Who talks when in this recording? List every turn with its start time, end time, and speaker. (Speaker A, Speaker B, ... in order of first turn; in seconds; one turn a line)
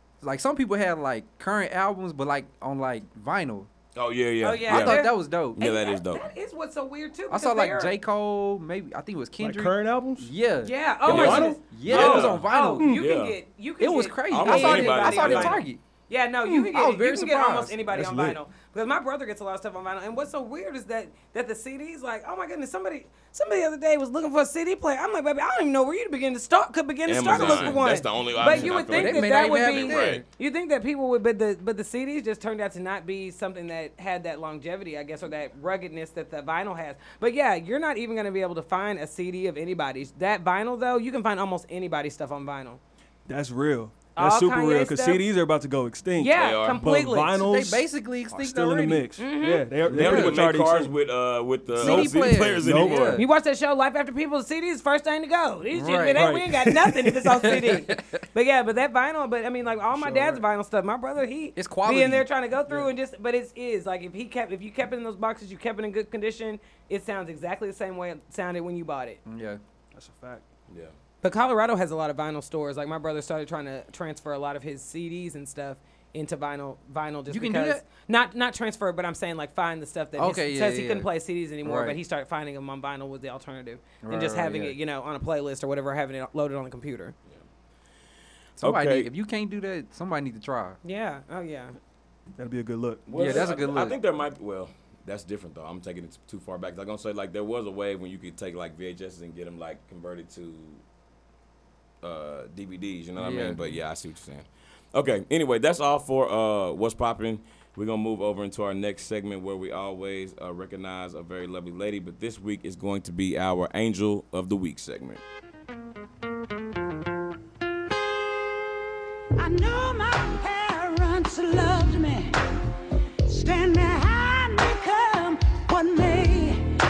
Speaker A: 0.2-3.7
Speaker B: 3.9-6.2
Speaker C: 4.4-8.0
Speaker A: 4.7-5.6
Speaker A: 7.3-12.9
Speaker D: 9.4-10.3
Speaker C: 10.6-42.8
Speaker D: 11.1-11.6
Speaker B: 11.1-13.3
Speaker D: 12.8-13.0
Speaker A: 13.8-15.8
Speaker B: 14.3-15.6
Speaker A: 16.4-17.8
Speaker D: 17.9-18.4
Speaker B: 27.1-30.2
Speaker D: 27.3-27.8
Speaker D: 28.4-28.7
Speaker A: 28.5-30.2
Speaker D: 43.2-50.9
Speaker C: 44.1-45.2
Speaker C: 46.2-47.4
Speaker B: 46.3-46.8
Speaker A: 47.4-49.1
Speaker C: 49.2-49.7
Speaker B: 49.9-53.2
Speaker A: 49.9-50.4
Speaker D: 51.7-53.1
Speaker A: 51.8-53.3
Speaker C: 53.1-69.2
Speaker A: 55.7-56.3
Speaker D: 56.1-57.1
Speaker A: 57.3-58.2
Speaker D: 59.9-60.4
Speaker A: 61.5-62.3
Speaker A: 69.2-69.6
Speaker D: 69.9-70.5
Speaker B: 70.7-70.9
Speaker C: 71.2-87.1
Speaker A: 77.3-77.8
Speaker A: 80.2-81.1
Speaker A: 81.6-82.0
Speaker A: 84.0-84.8
Speaker B: 88.6-89.1
Speaker A: 88.6-90.8
Speaker C: 90.8-91.8
Speaker D: 92.3-93.5
Speaker B: 93.0-100.8
Speaker A: 93.1-94.0
Speaker B: 102.0-115.2
Speaker A: 103.2-103.8
Speaker E: 119.4-122.3
Speaker E: 123.3-126.6